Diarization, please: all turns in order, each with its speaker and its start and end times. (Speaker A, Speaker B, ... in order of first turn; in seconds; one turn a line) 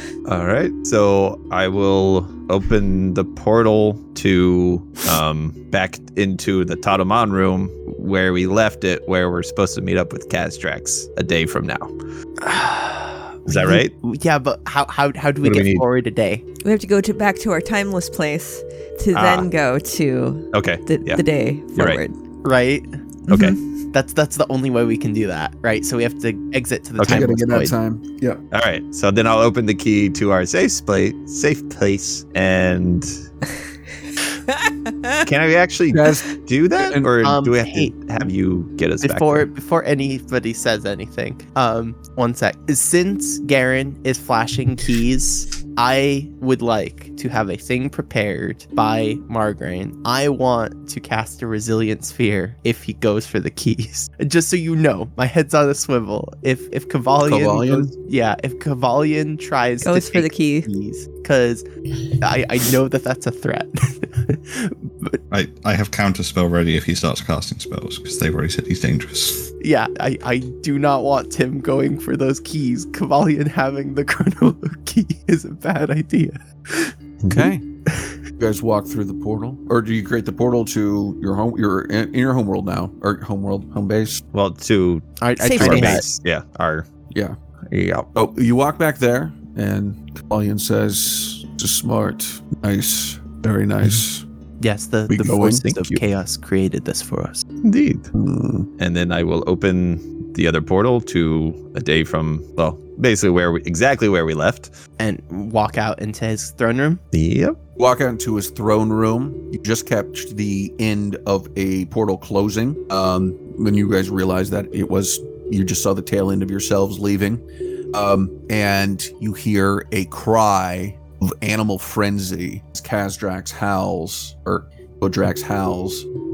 Speaker A: 0.2-11.9
Speaker B: 12.4-16.4
Speaker A: 13.5-13.9
Speaker A: 15.4-15.8
Speaker C: 16.6-22.1
Speaker A: 19.1-19.5
Speaker A: 20.5-21.2
Speaker B: 22.4-23.0
Speaker A: 23.3-23.6
Speaker C: 23.3-23.6
Speaker B: 23.9-27.8
Speaker A: 27.0-27.3
Speaker D: 27.0-28.4
Speaker A: 28.5-33.2
Speaker C: 34.6-35.2
Speaker A: 35.2-39.5
Speaker D: 35.9-37.1
Speaker B: 37.2-37.9
Speaker B: 39.0-61.6
Speaker D: 57.2-57.9
Speaker C: 59.8-60.7
Speaker B: 62.2-65.2
Speaker E: 65.3-69.5
Speaker B: 69.6-76.9
Speaker A: 77.2-77.5
Speaker D: 77.3-77.6
Speaker D: 78.4-84.2
Speaker A: 84.3-86.9
Speaker B: 85.2-86.0
Speaker C: 85.4-86.0
Speaker D: 87.1-87.3
Speaker A: 87.7-88.1
Speaker D: 88.1-94.2
Speaker B: 94.6-97.4
Speaker D: 95.1-95.7
Speaker A: 95.4-96.0
Speaker A: 97.6-98.1
Speaker D: 98.1-98.7
Speaker A: 98.8-104.7
Speaker B: 105.0-107.0
Speaker A: 107.1-107.6
Speaker D: 107.8-126.1